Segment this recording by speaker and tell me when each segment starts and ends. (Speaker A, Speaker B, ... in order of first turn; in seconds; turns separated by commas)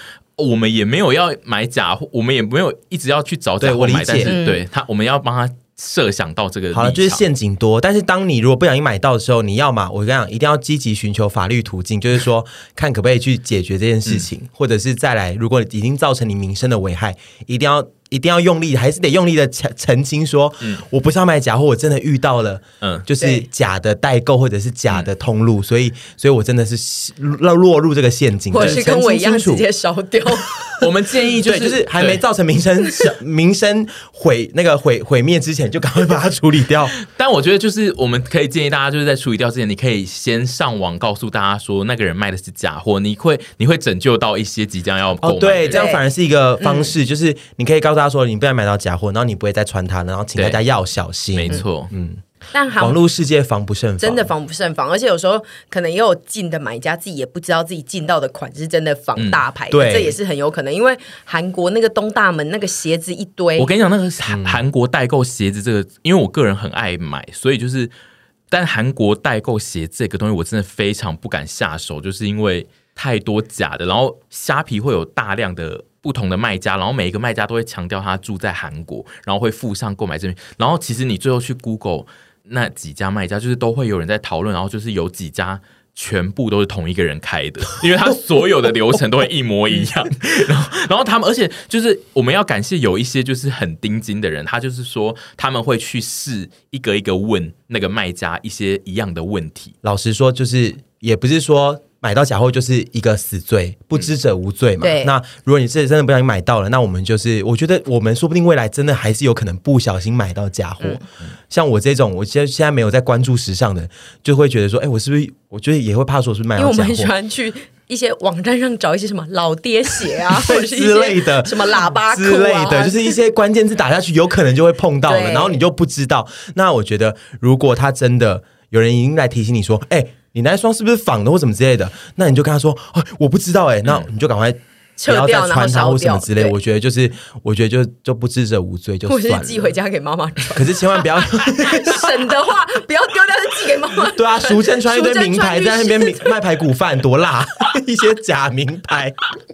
Speaker A: 0.4-7.2, Speaker B: 3.6-4.3, Speaker C: 4.2-4.6, Speaker B: 6.7-29.6, Speaker C: 23.2-23.5, Speaker C: 28.5-30.6, Speaker A: 30.8-32.2, Speaker B: 31.4-36.9, Speaker A: 37.1-45.8, Speaker B: 45.2-52.2, Speaker C: 45.7-46.0, Speaker C: 46.6-46.9, Speaker A: 50.4-50.6, Speaker A: 51.3-51.9, Speaker C: 52.5-53.0, Speaker B: 52.8-54.3, Speaker C: 54.0-63.7, Speaker A: 59.2-59.4, Speaker B: 59.7-60.2, Speaker A: 63.6-67.9, Speaker B: 64.3-64.6, Speaker A: 68.5-99.8, Speaker B: 99.8-117.1, Speaker C: 104.8-105.1, Speaker C: 116.6-123.2, Speaker B: 120.3-139.7, Speaker C: 125.0-125.6, Speaker C: 135.0-136.6, Speaker C: 139.1-146.4, Speaker B: 140.6-142.2, Speaker B: 144.1-149.2